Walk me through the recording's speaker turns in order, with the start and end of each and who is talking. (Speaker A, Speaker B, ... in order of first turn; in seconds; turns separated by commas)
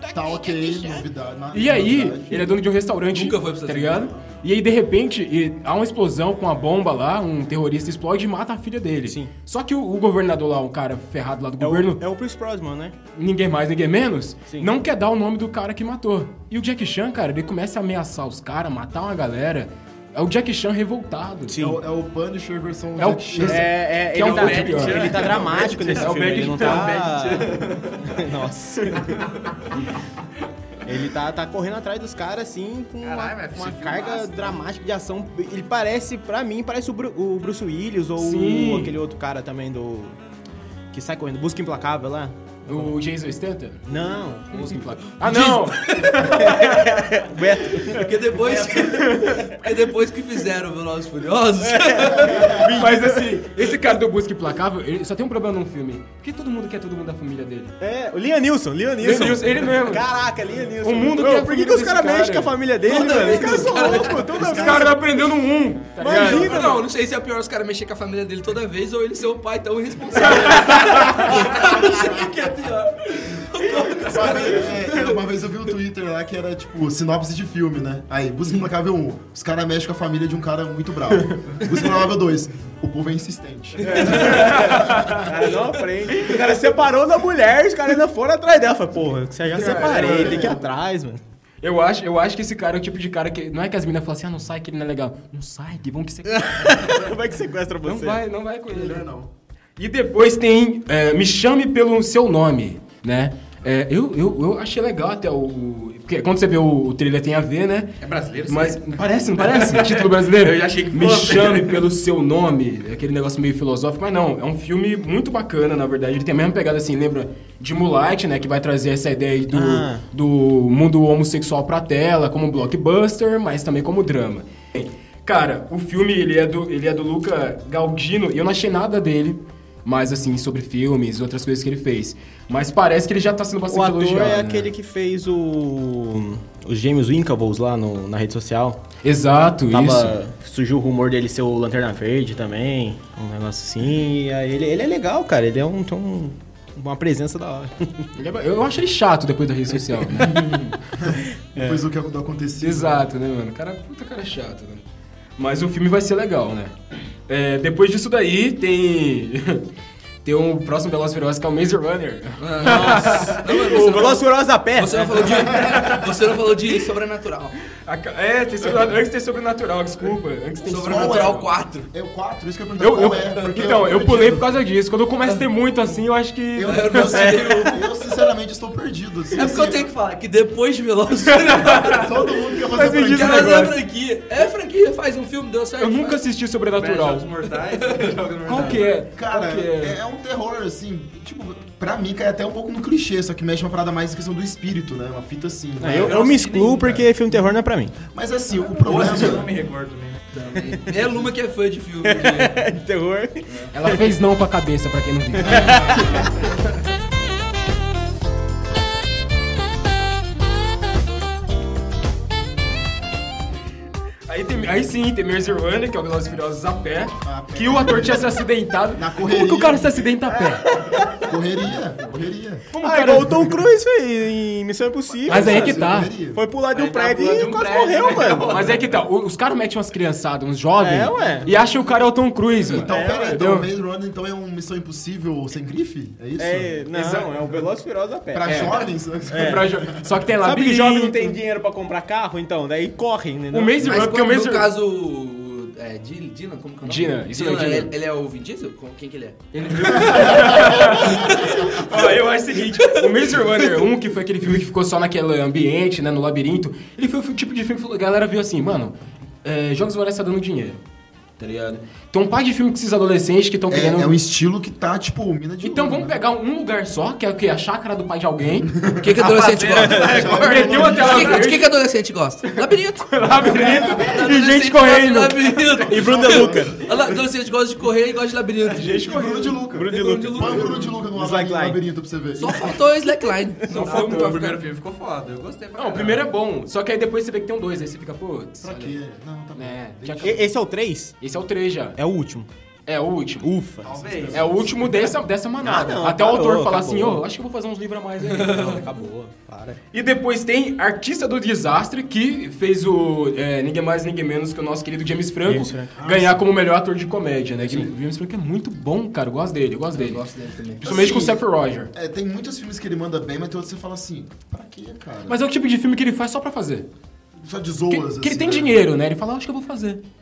Speaker A: 0.1-2.5, Speaker B: 1.5-12.0, Speaker C: 3.1-4.3, Speaker D: 9.1-9.3, Speaker D: 11.6-13.0, Speaker B: 13.2-21.6, Speaker D: 14.5-14.7, Speaker D: 21.5-21.8, Speaker A: 21.6-23.7, Speaker B: 23.0-27.1, Speaker D: 23.4-29.3, Speaker E: 24.1-28.2, Speaker E: 29.1-29.6, Speaker D: 30.9-40.2, Speaker E: 33.0-34.6, Speaker B: 38.2-39.0, Speaker D: 40.9-43.0, Speaker B: 42.7-43.9, Speaker D: 43.9-48.5, Speaker B: 44.5-46.9, Speaker C: 48.0-52.7, Speaker B: 49.0-49.3, Speaker D: 51.6-53.4, Speaker B: 52.6-57.8, Speaker D: 57.8-65.0, Speaker B: 59.0-60.0, Speaker B: 60.8-62.6, Speaker C: 62.8-64.3, Speaker B: 63.2-63.7, Speaker A: 64.2-65.1, Speaker B: 64.3-66.6, Speaker D: 66.0-66.9, Speaker C: 66.0-75.2, Speaker B: 70.5-71.4, Speaker A: 71.5-72.3, Speaker A: 74.0-84.3, Speaker D: 83.8-91.2, Speaker B: 84.0-85.3, Speaker B: 89.5-90.5, Speaker A: 89.6-90.7, Speaker B: 91.6-97.1, Speaker D: 96.3-98.2, Speaker B: 97.8-99.1, Speaker A: 98.7-99.3, Speaker B: 99.8-107.9, Speaker E: 108.0-111.9, Speaker B: 108.5-134.7, Speaker D: 119.5-120.0, Speaker D: 133.7-138.8, Speaker B: 139.0-140.2, Speaker D: 139.7-148.1, Speaker B: 148.2-150.6, Speaker D: 150.2-150.5, Speaker A: 151.0-153.1, Speaker D: 151.6-151.8, Speaker B: 152.6-154.8, Speaker B: 155.4-156.8, Speaker B: 157.3-159.6, Speaker B: 160.2-163.6, Speaker C: 162.4-167.5, Speaker D: 162.6-165.8, Speaker B: 165.7-166.0, Speaker B: 167.8-171.5, Speaker C: 170.6-171.9, Speaker A: 170.7-174.6, Speaker B: 172.8-177.1, Speaker A: 176.6-179.9, Speaker C: 176.6-177.9, Speaker D: 177.1-177.8, Speaker C: 179.3-182.1, Speaker B: 181.5-181.9, Speaker A: 181.7-183.7, Speaker B: 182.7-183.8, Speaker C: 182.9-186.2, Speaker B: 185.8-187.3, Speaker E: 186.7-188.9, Speaker C: 187.7-188.1, Speaker B: 188.4-190.0, Speaker A: 189.1-196.3, Speaker D: 195.8-197.9, Speaker E: 195.9-197.1, Speaker A: 198.1-199.5, Speaker E: 198.7-200.2, Speaker C: 200.3-202.7, Speaker D: 200.6-201.1, Speaker D: 202.0-204.2, Speaker C: 203.5-203.7, Speaker B: 203.7-206.0, Speaker D: 205.4-206.3, Speaker B: 214.3-220.7, Speaker A: 217.2-218.4, Speaker A: 219.0-220.1, Speaker D: 220.4-221.3, Speaker A: 221.2-222.7, Speaker B: 222.7-223.4, Speaker D: 222.8-228.6, Speaker A: 225.2-226.4, Speaker B: 225.3-226.1, Speaker E: 226.7-228.9, Speaker B: 228.5-233.7, Speaker D: 230.8-231.5, Speaker D: 232.7-233.4, Speaker A: 232.7-237.6, Speaker D: 236.4-239.8, Speaker B: 236.9-237.2, Speaker A: 238.3-240.1, Speaker B: 238.4-238.8, Speaker B: 239.3-241.4, Speaker D: 240.4-244.1, Speaker B: 243.5-244.7, Speaker C: 243.8-251.7, Speaker B: 246.8-247.9, Speaker B: 249.5-260.8, Speaker B: 261.4-264.1, Speaker A: 263.7-266.2, Speaker B: 265.6-268.7, Speaker A: 268.7-269.3, Speaker C: 269.0-279.0, Speaker E: 269.3-270.3, Speaker B: 269.5-271.7, Speaker D: 269.7-270.0, Speaker A: 269.9-271.5, Speaker B: 273.1-275.5, Speaker A: 273.4-274.2, Speaker A: 275.8-277.2, Speaker D: 275.9-276.8, Speaker B: 278.7-279.6, Speaker A: 278.9-282.8, Speaker D: 279.7-281.8, Speaker C: 279.9-281.0, Speaker C: 282.4-284.6, Speaker B: 283.7-284.6, Speaker E: 283.8-286.3, Speaker B: 285.8-289.0, Speaker A: 288.6-290.5, Speaker B: 289.5-290.5, Speaker D: 290.2-291.1, Speaker B: 291.2-292.0, Speaker D: 292.0-292.5, Speaker B: 292.9-293.5, Speaker D: 293.4-297.2, Speaker E: 293.8-294.7, Speaker B: 294.3-298.9, Speaker C: 298.2-299.0, Speaker D: 298.4-299.8, Speaker B: 299.9-310.2, Speaker D: 305.5-306.1, Speaker A: 306.0-306.4, Speaker A: 307.6-307.9, Speaker C: 309.9-310.8, Speaker A: 310.8-315.4, Speaker B: 310.8-311.9, Speaker B: 315.3-316.9, Speaker A: 317.4-318.9, Speaker B: 317.9-320.0